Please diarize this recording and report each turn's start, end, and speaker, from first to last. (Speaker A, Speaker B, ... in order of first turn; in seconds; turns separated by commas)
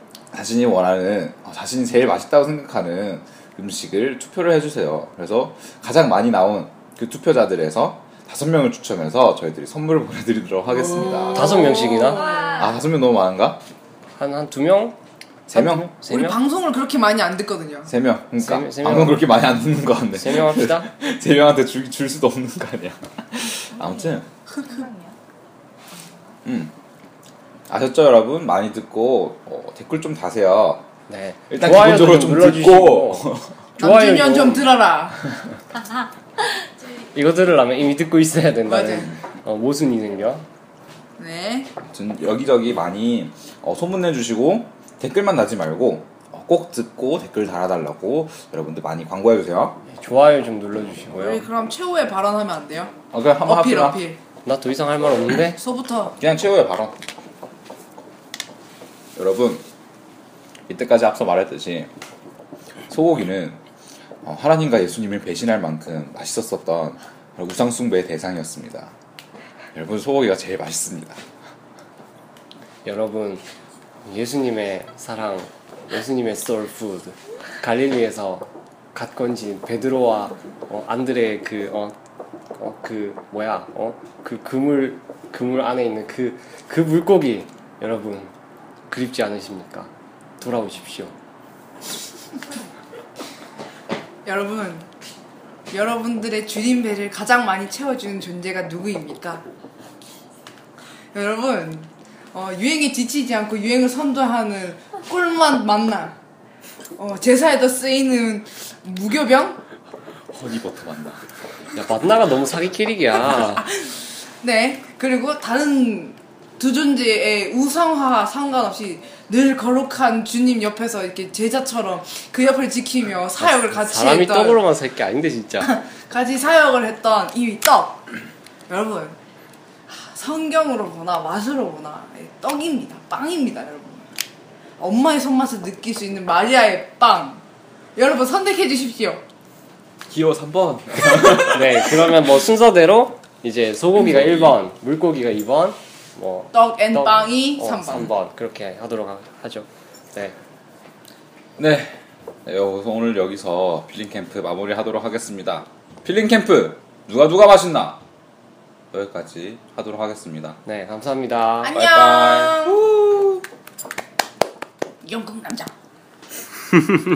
Speaker A: 0.3-11.7, Speaker B: 10.8-12.5, Speaker C: 11.3-12.4, Speaker D: 12.0-12.8, Speaker A: 12.6-13.6, Speaker C: 14.2-15.0, Speaker A: 15.5-15.9, Speaker C: 15.5-16.4, Speaker B: 16.0-17.9, Speaker A: 17.9-24.3, Speaker C: 18.4-19.4, Speaker C: 20.1-20.9, Speaker D: 23.8-25.2, Speaker A: 26.4-26.7, Speaker A: 27.7-30.9, Speaker C: 31.1-34.7, Speaker A: 31.5-33.5, Speaker B: 33.8-35.2, Speaker C: 37.1-40.5, Speaker B: 38.7-39.1, Speaker B: 41.2-41.7, Speaker A: 41.9-49.8, Speaker C: 49.9-51.5, Speaker B: 51.2-54.2, Speaker A: 53.1-54.0, Speaker C: 54.5-55.6, Speaker B: 55.6-56.2, Speaker A: 56.2-57.0, Speaker A: 59.2-59.6, Speaker A: 60.7-61.9, Speaker A: 62.9-63.6, Speaker A: 64.2-68.9, Speaker A: 69.7-71.2, Speaker C: 72.8-73.5, Speaker C: 74.0-82.0, Speaker C: 82.6-88.3, Speaker C: 88.9-91.2, Speaker B: 94.2-94.9, Speaker B: 95.7-99.4, Speaker B: 101.1-106.2, Speaker B: 107.0-109.6, Speaker A: 110.3-111.2, Speaker C: 111.8-113.7, Speaker B: 113.3-124.6, Speaker C: 123.4-125.7, Speaker B: 125.6-128.1, Speaker B: 128.7-129.2, Speaker B: 129.9-134.1, Speaker B: 134.8-137.4, Speaker B: 138.0-139.2, Speaker A: 140.1-142.1, Speaker C: 141.1-150.4, Speaker A: 144.0-144.6, Speaker B: 146.5-148.1, Speaker A: 151.6-158.0, Speaker A: 158.9-160.6, Speaker C: 160.7-161.8, Speaker B: 161.6-162.8, Speaker A: 161.7-163.4, Speaker B: 165.0-165.7